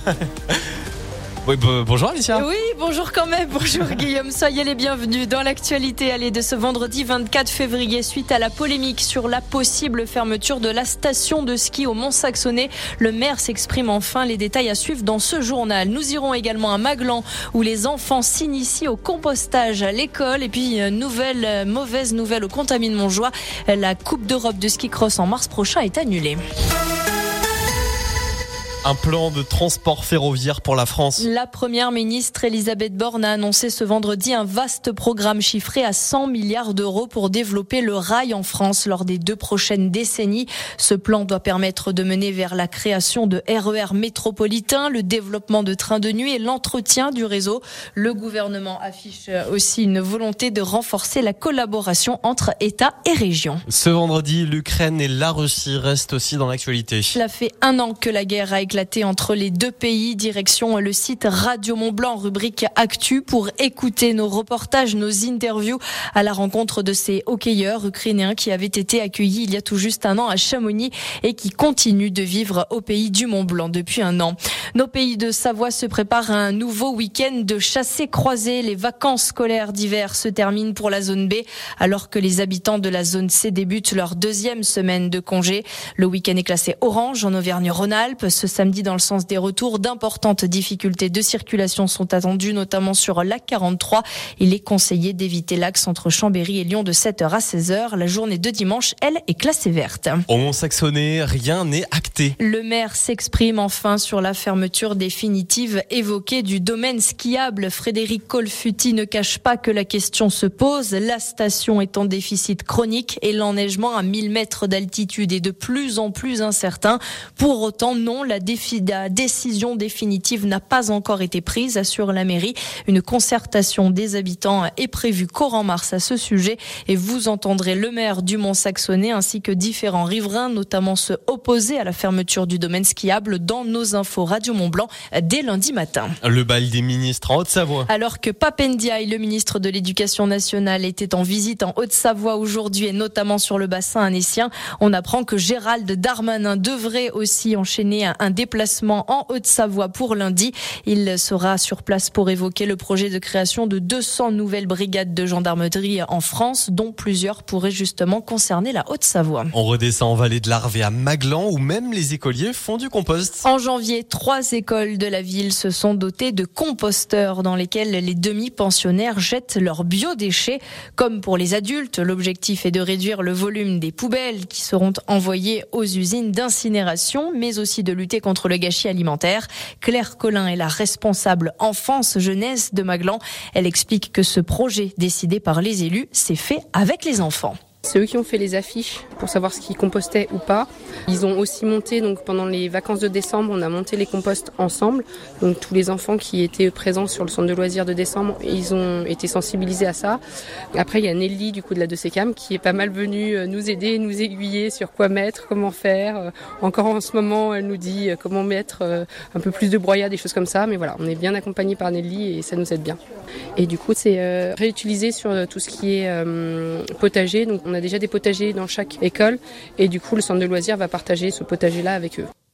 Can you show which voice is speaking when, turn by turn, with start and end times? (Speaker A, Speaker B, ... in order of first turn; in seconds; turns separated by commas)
Speaker A: 1.4-2.4, Speaker B: 2.3-26.4, Speaker A: 28.8-31.3, Speaker B: 31.2-53.6, Speaker A: 53.7-57.1, Speaker B: 57.1-100.2, Speaker A: 100.3-102.3, Speaker B: 102.4-136.2, Speaker A: 136.2-137.9, Speaker B: 137.9-159.5, Speaker A: 159.5-163.4, Speaker B: 163.4-187.6, Speaker C: 187.8-200.2, Speaker C: 200.7-213.0, Speaker C: 213.6-222.3